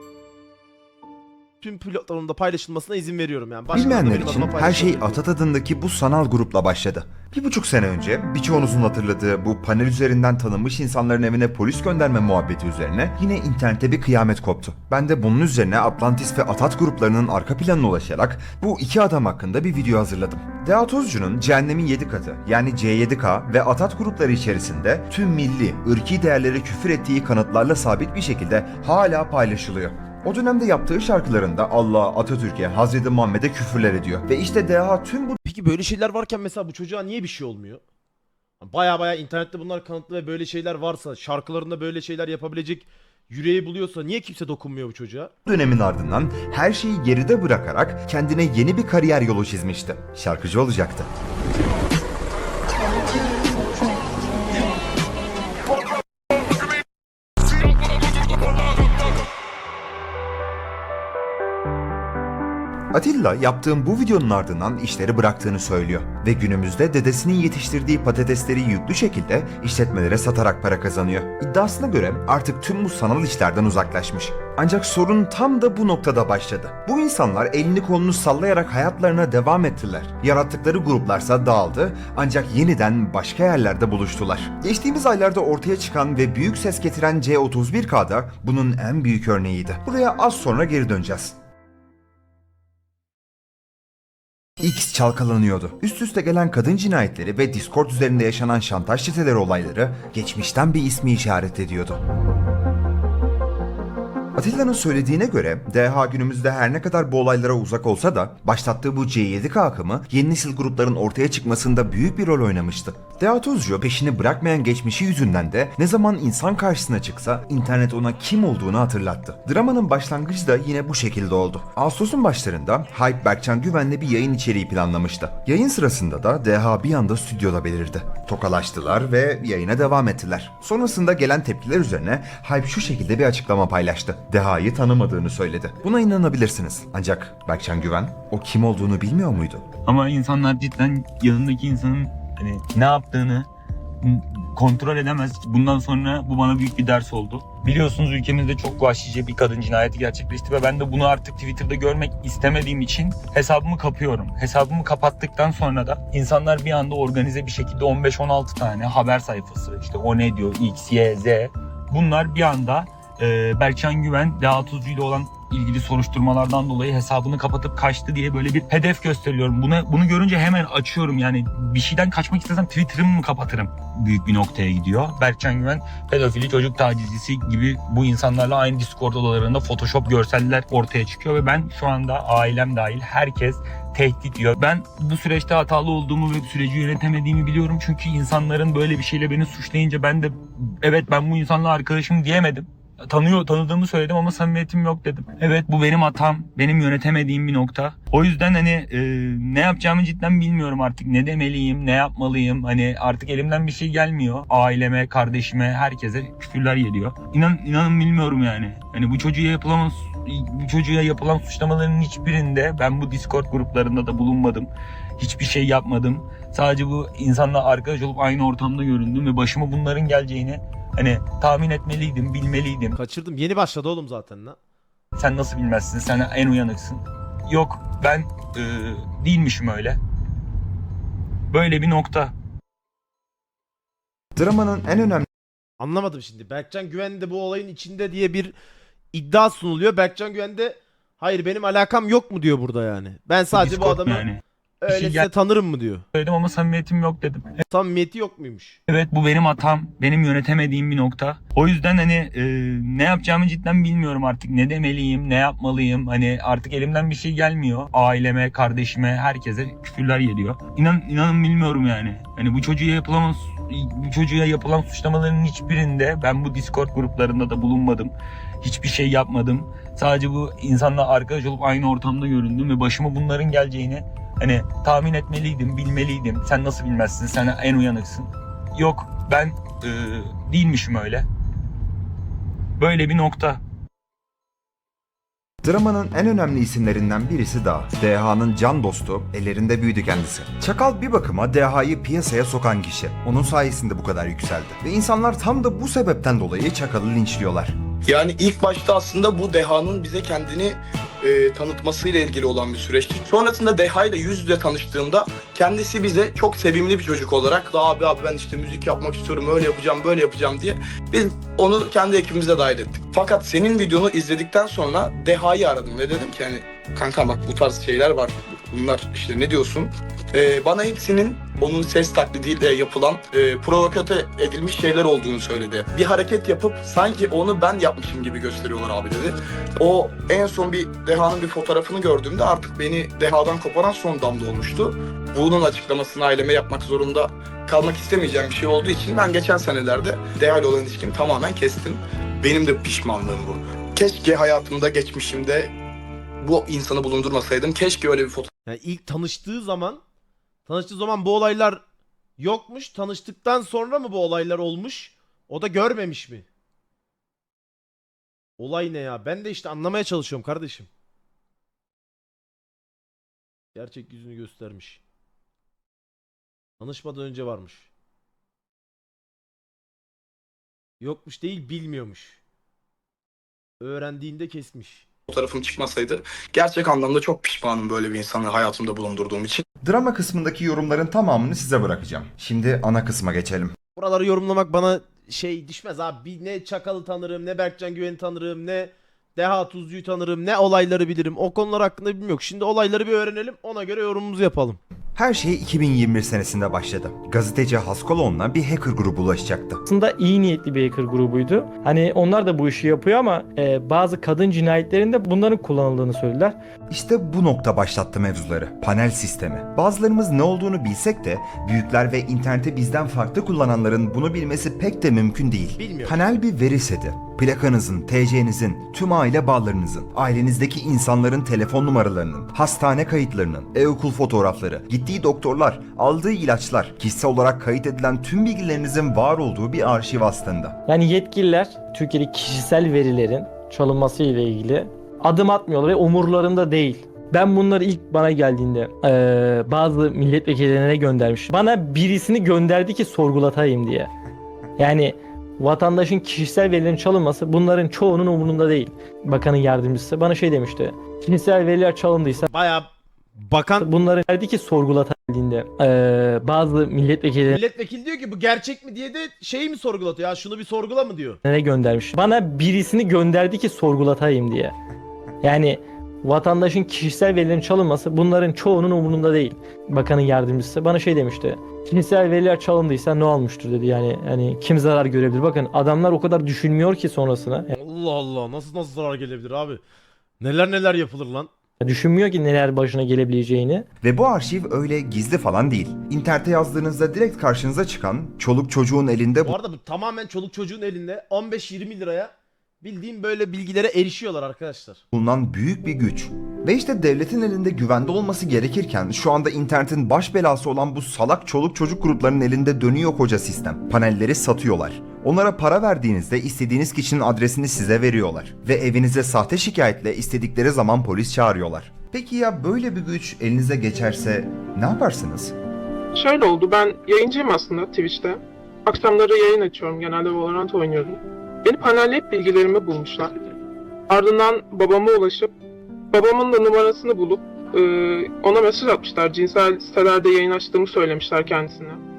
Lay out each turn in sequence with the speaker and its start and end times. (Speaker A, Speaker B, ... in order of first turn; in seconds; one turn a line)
Speaker A: 1.6-5.2
Speaker B: 3.7-35.4
Speaker A: 35.5-37.8
Speaker A: 38.6-45.3
Speaker B: 45.5-51.1
Speaker B: 62.9-91.4
Speaker B: 94.6-102.0
Speaker B: 104.4-139.7
Speaker C: 139.8-143.5
Speaker C: 144.0-223.0
Speaker A: 223.0-224.6
Speaker C: 225.2-230.0
Speaker C: 231.5-232.3
Speaker B: 234.4-235.3
Speaker A: 235.8-238.6
Speaker A: 239.1-244.3
Speaker C: 243.5-245.3
Speaker A: 244.8-246.0
Speaker C: 246.1-247.6
Speaker A: 247.7-248.8
Speaker C: 248.9-281.3
Speaker C: 282.8-283.6
Speaker B: 285.6-297.8
Speaker D: 298.1-345.7
Speaker D: 346.4-348.5
Speaker A: 348.7-350.0
Speaker A: 350.7-351.8
Speaker A: 352.4-356.5
Speaker A: 358.6-360.9
Speaker A: 363.8-365.0
Speaker A: 366.8-367.9
Speaker A: 371.0-372.4
Speaker A: 373.8-375.1
Speaker D: 375.3-379.6
Speaker B: 379.8-383.8
Speaker A: 384.0-394.8
Speaker B: 395.2-399.8
Speaker E: 399.9-406.6
Speaker B: 406.9-430.8
Speaker A: 415.8-416.2
Speaker E: 430.9-444.1
Speaker E: 444.8-452.5
Speaker A: 452.4-453.9
Speaker E: 453.8-457.6
Speaker A: 457.5-461.4
Speaker E: 461.4-464.7
Speaker E: 465.4-477.7
Speaker A: 477.7-479.8
Speaker A: 480.4-481.5
Speaker E: 481.8-483.9
Speaker B: 484.0-489.6
Speaker A: 489.4-495.0
Speaker B: 495.1-515.5
Speaker F: 516.1-523.4
Speaker F: 524.1-525.5
Speaker F: 526.1-532.0